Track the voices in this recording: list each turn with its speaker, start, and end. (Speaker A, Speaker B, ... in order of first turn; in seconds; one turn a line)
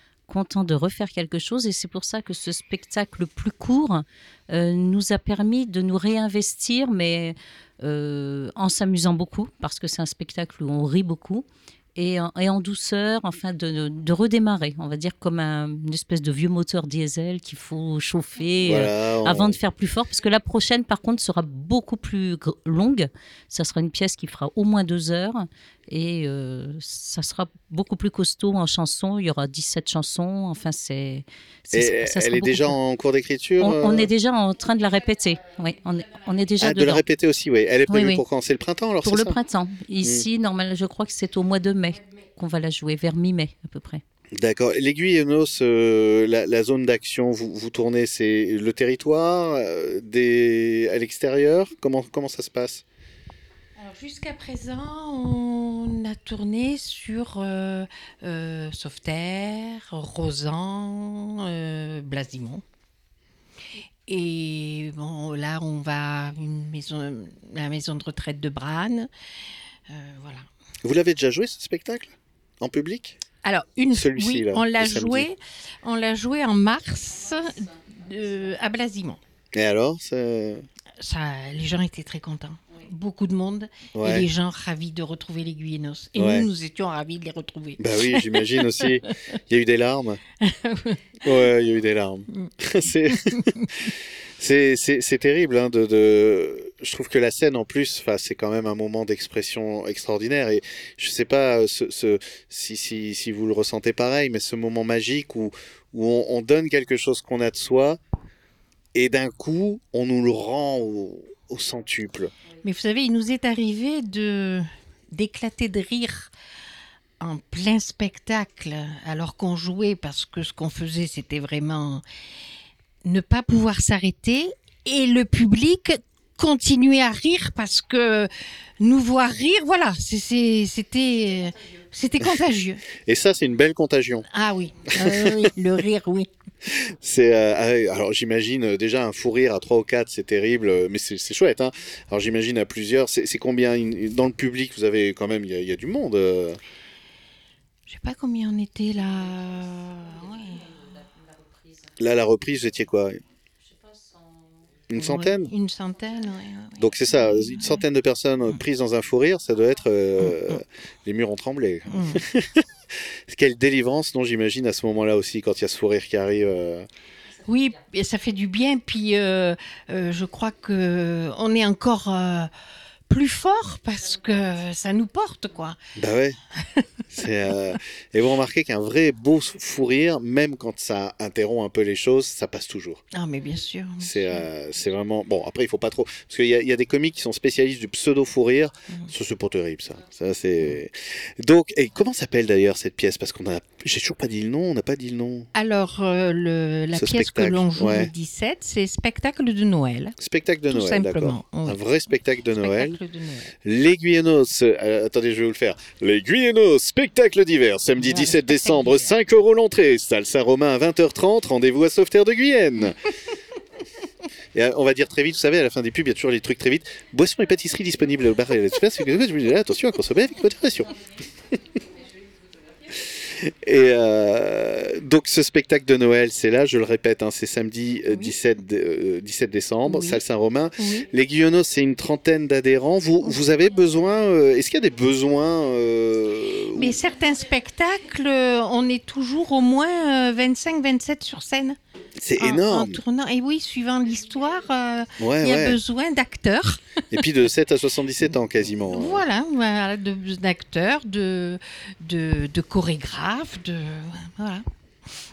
Speaker A: 0.3-32.8
Speaker B: 18.6-19.6
Speaker B: 31.7-34.1
Speaker A: 33.6-37.0
Speaker B: 36.6-39.4
Speaker A: 37.9-38.2
Speaker A: 39.0-44.0
Speaker B: 44.4-52.8
Speaker C: 53.8-62.6
Speaker C: 64.1-69.1
Speaker C: 69.9-70.4
Speaker B: 70.8-73.2
Speaker C: 73.4-79.2
Speaker B: 73.9-75.3
Speaker B: 79.5-80.6
Speaker C: 81.0-89.1
Speaker B: 83.9-84.3
Speaker B: 86.2-86.5
Speaker B: 87.8-90.2
Speaker C: 90.4-91.3
Speaker B: 91.2-93.5
Speaker C: 93.1-93.4
Speaker B: 94.4-108.0
Speaker B: 108.9-112.3
Speaker C: 112.6-116.3
Speaker C: 117.2-122.0
Speaker C: 123.0-132.8
Speaker B: 133.1-134.2
Speaker C: 134.3-136.3
Speaker B: 135.0-135.5
Speaker B: 136.7-146.6
Speaker C: 147.9-150.7
Speaker A: 149.7-152.0
Speaker B: 152.0-153.2
Speaker A: 153.6-154.6
Speaker B: 154.9-155.5
Speaker C: 155.0-157.8
Speaker B: 156.8-162.6
Speaker C: 160.2-160.6
Speaker C: 161.9-162.2
Speaker B: 163.3-166.9
Speaker C: 167.4-172.5
Speaker C: 173.1-175.8
Speaker B: 176.0-176.4
Speaker B: 177.1-183.0
Speaker C: 183.1-184.5
Speaker B: 184.0-195.5
Speaker C: 195.5-200.1
Speaker B: 196.9-198.1
Speaker B: 200.2-203.0
Speaker C: 200.7-201.8
Speaker C: 202.5-203.5
Speaker B: 203.6-213.0
Speaker C: 208.0-209.2
Speaker B: 214.5-221.0
Speaker B: 223.1-237.0
Speaker C: 229.9-230.2
Speaker C: 230.8-231.1
Speaker C: 236.7-241.8
Speaker B: 242.2-243.0
Speaker C: 242.4-246.8
Speaker B: 245.2-245.8
Speaker B: 247.1-249.2
Speaker C: 248.8-254.6